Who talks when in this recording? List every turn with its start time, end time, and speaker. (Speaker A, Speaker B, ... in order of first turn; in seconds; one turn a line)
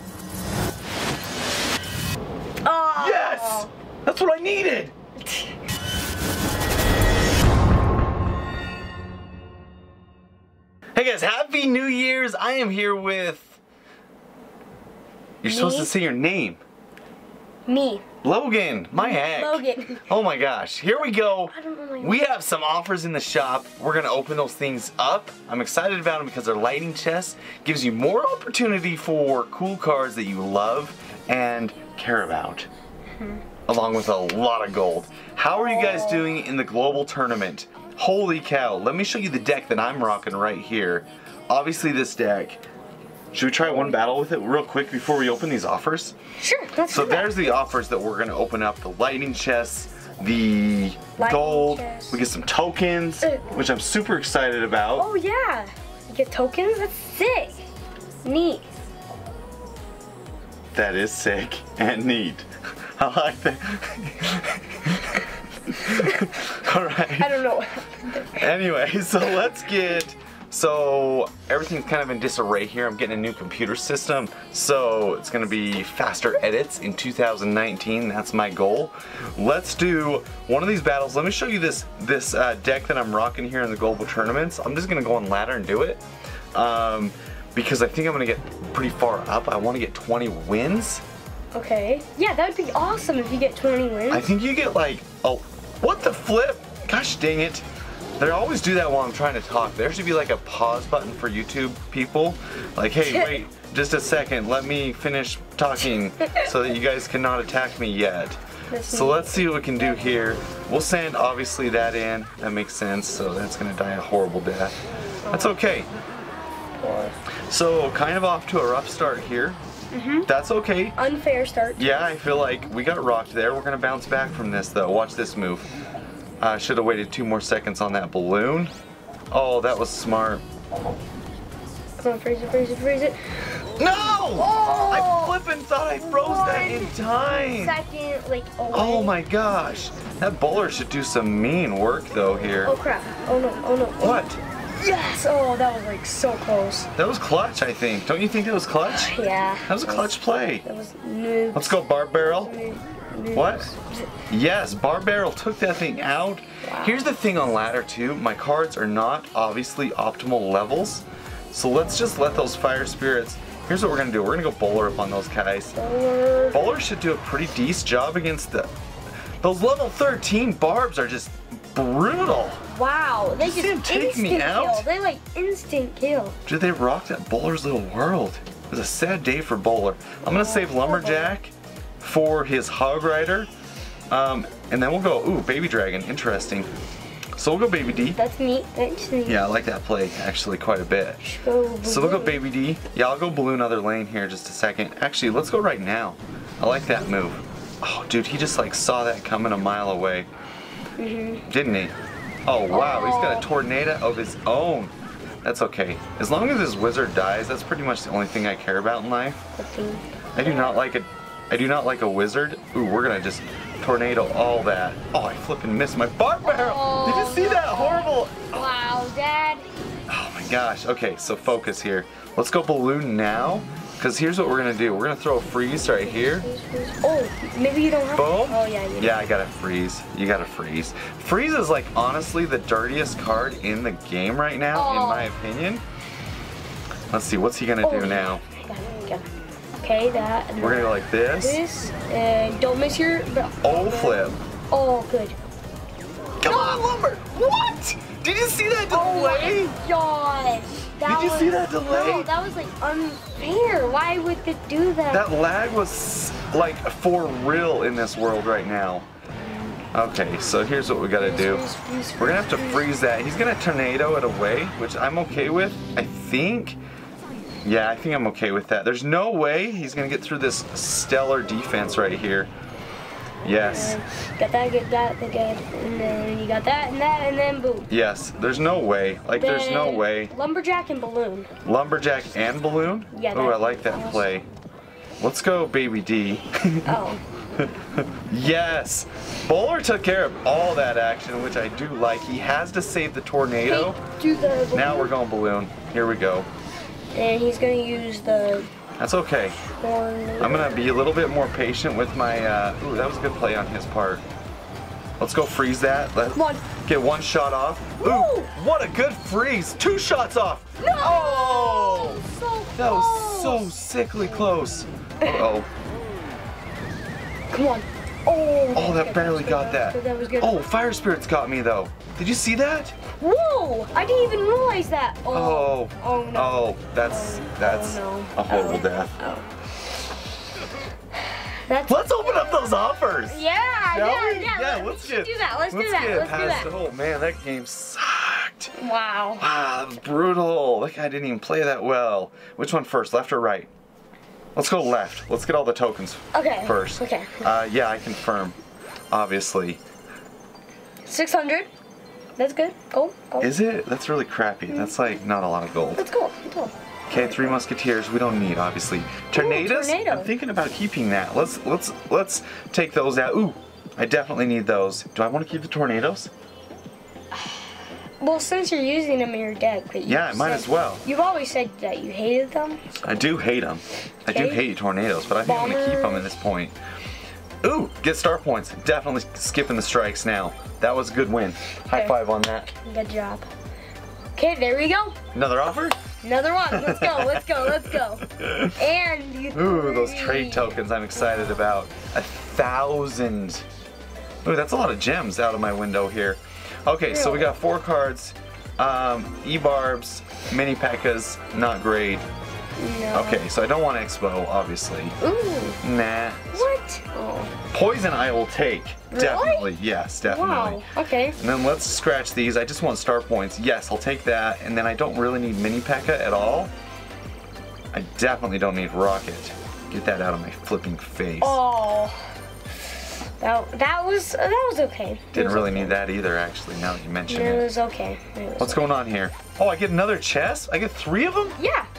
Speaker A: 2.6-3.7
Speaker B: 3.0-4.9
Speaker B: 10.9-13.6
Speaker B: 15.4-16.6
Speaker A: 15.4-15.9
Speaker A: 17.7-18.0
Speaker B: 18.2-32.7
Speaker A: 19.0-20.0
Speaker A: 21.5-22.1
Speaker B: 33.7-42.6
Speaker A: 35.5-36.4
Speaker B: 43.3-46.1
Speaker A: 46.4-47.5
Speaker B: 46.9-55.1
Speaker A: 51.2-52.2
Speaker A: 54.9-57.7
Speaker A: 58.2-58.7
Speaker B: 60.7-67.4
Speaker A: 67.2-68.5
Speaker B: 68.2-86.0
Speaker B: 86.5-91.0
Speaker A: 91.5-94.2
Speaker B: 94.1-97.7
Speaker B: 98.2-114.8
Speaker A: 103.0-103.3
Speaker A: 108.7-109.5
Speaker A: 115.2-115.5
Speaker B: 115.3-115.9
Speaker A: 116.8-117.2
Speaker B: 117.5-119.6
Speaker A: 119.9-120.3
Speaker B: 120.2-121.0
Speaker A: 121.0-122.0
Speaker B: 121.8-125.7
Speaker B: 126.4-128.7
Speaker B: 129.3-130.4
Speaker A: 132.0-135.4
Speaker B: 133.8-137.8
Speaker A: 136.0-139.2
Speaker B: 138.7-142.7
Speaker A: 142.6-144.2
Speaker B: 144.0-144.4
Speaker A: 144.8-146.9
Speaker B: 146.9-149.1
Speaker A: 148.8-154.1
Speaker B: 149.7-150.6
Speaker B: 151.5-152.5
Speaker B: 153.3-153.7
Speaker B: 154.3-165.8
Speaker A: 156.6-157.1
Speaker A: 165.8-166.8
Speaker B: 166.5-168.7
Speaker B: 169.4-172.6
Speaker A: 172.6-176.4
Speaker B: 173.4-174.9
Speaker B: 176.4-183.5
Speaker A: 180.2-181.3
Speaker B: 184.1-186.7
Speaker B: 187.4-188.2
Speaker A: 188.2-189.4
Speaker B: 189.2-191.2
Speaker A: 191.2-192.4
Speaker B: 191.8-200.3
Speaker A: 201.0-201.4
Speaker B: 201.5-201.9
Speaker B: 202.4-209.4
Speaker A: 202.7-203.5
Speaker A: 209.6-210.8
Speaker B: 210.3-218.6
Speaker A: 216.4-219.7
Speaker B: 220.1-226.4
Speaker A: 226.0-229.2
Speaker B: 228.1-235.8
Speaker A: 234.7-235.3
Speaker B: 237.1-238.4
Speaker A: 237.8-239.3
Speaker A: 239.8-245.4
Speaker B: 240.6-241.6
Speaker B: 243.6-244.4
Speaker B: 246.4-249.7
Speaker A: 246.4-246.8
Speaker A: 248.9-255.2
Speaker B: 251.0-252.3
Speaker B: 255.1-259.1
Speaker A: 259.4-259.8
Speaker B: 259.9-261.6
Speaker A: 261.2-262.9
Speaker B: 262.2-266.8
Speaker B: 267.6-272.5
Speaker B: 273.4-274.0
Speaker A: 273.4-277.9
Speaker B: 277.9-280.3
Speaker A: 279.3-281.5
Speaker B: 281.6-284.5
Speaker A: 283.1-284.3
Speaker B: 285.2-286.9
Speaker A: 286.9-287.2
Speaker B: 287.6-294.0
Speaker A: 293.6-295.1
Speaker B: 294.7-296.5
Speaker A: 297.1-298.7
Speaker B: 299.0-299.6
Speaker A: 299.8-300.9
Speaker B: 300.4-304.2
Speaker B: 305.2-312.2
Speaker A: 306.3-306.6
Speaker A: 308.0-308.5
Speaker A: 310.8-313.7
Speaker B: 312.8-315.7
Speaker A: 317.5-320.6
Speaker B: 318.7-322.9
Speaker A: 323.2-329.5
Speaker B: 325.3-329.2
Speaker A: 331.5-336.7
Speaker B: 331.9-338.7
Speaker A: 338.7-339.5
Speaker B: 339.4-343.7
Speaker B: 344.5-348.6
Speaker A: 346.3-347.4
Speaker B: 349.1-349.8
Speaker A: 351.0-351.7
Speaker A: 352.4-353.5
Speaker B: 353.4-356.0
Speaker A: 355.9-357.6
Speaker B: 357.1-366.3
Speaker A: 359.3-360.3
Speaker A: 368.2-373.0
Speaker B: 370.0-371.0
Speaker B: 373.0-376.8
Speaker A: 374.3-374.6
Speaker A: 375.4-376.4
Speaker B: 377.6-382.7
Speaker A: 381.9-382.2
Speaker A: 382.7-383.5
Speaker A: 384.4-385.2
Speaker B: 385.3-386.0
Speaker A: 386.2-390.8
Speaker B: 386.7-387.6
Speaker B: 388.4-388.7
Speaker B: 389.5-393.6
Speaker A: 391.3-391.6
Speaker B: 394.4-402.2
Speaker A: 397.1-397.5
Speaker A: 402.8-403.4
Speaker B: 403.1-405.2
Speaker A: 405.2-405.8
Speaker B: 405.8-406.7
Speaker A: 406.5-407.5
Speaker B: 407.7-410.8
Speaker A: 409.1-409.7
Speaker A: 410.2-411.4
Speaker B: 411.4-416.7
Speaker B: 417.9-421.6
Speaker A: 421.4-422.3
Speaker A: 423.4-426.0
Speaker B: 425.3-427.7
Speaker A: 427.3-428.8
Speaker B: 428.6-431.6
Speaker A: 431.6-431.9